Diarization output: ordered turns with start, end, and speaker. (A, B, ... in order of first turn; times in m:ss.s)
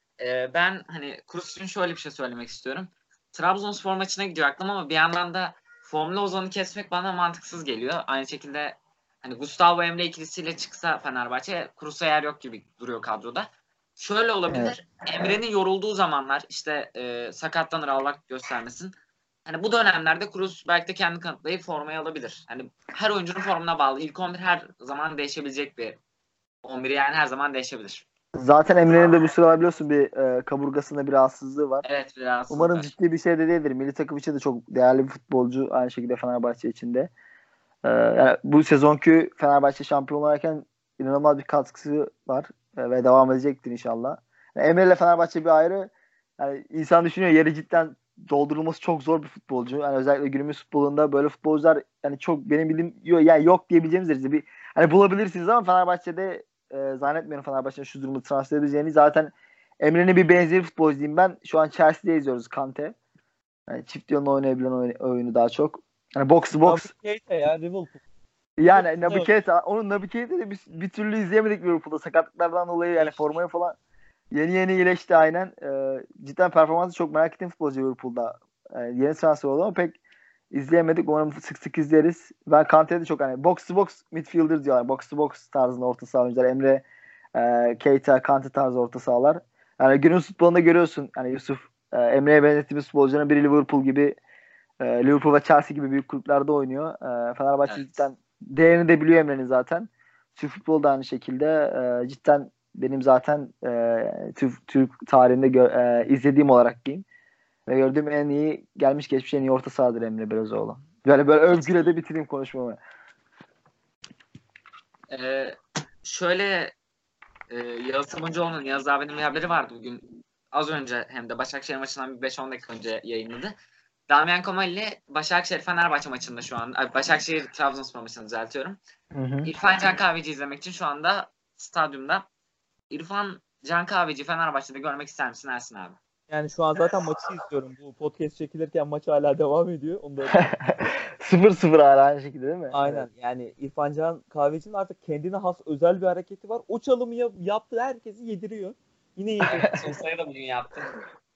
0:00.2-0:18.9 A
0:19.5-0:26.0 A
0:26.6-0:28.1 A
0:28.4-0:31.8 B
0:31.8-0:32.9 A
0:32.5-0:37.1 B
0:37.8-1:03.0 B
1:03.7-1:06.9 B
1:06.6-1:08.0 C
1:08.6-1:13.8 B
1:08.6-1:09.3 C
1:13.0-1:13.4 C
1:14.3-1:20.0 B
1:20.5-1:26.8 B
1:27.4-1:34.2 B
1:34.8-1:47.1 B
1:37.6-1:38.0 A
1:47.7-1:52.8 B
1:51.5-1:51.9 A
1:55.1-1:56.7 A
1:57.5-2:03.5 A
2:04.1-2:08.8 A
2:09.1-2:09.5 B
2:09.4-2:12.3 A
2:12.9-2:16.0 A
2:16.3-2:20.5 C
2:20.3-2:23.1 B
2:22.7-2:29.9 C
2:29.4-2:30.9 A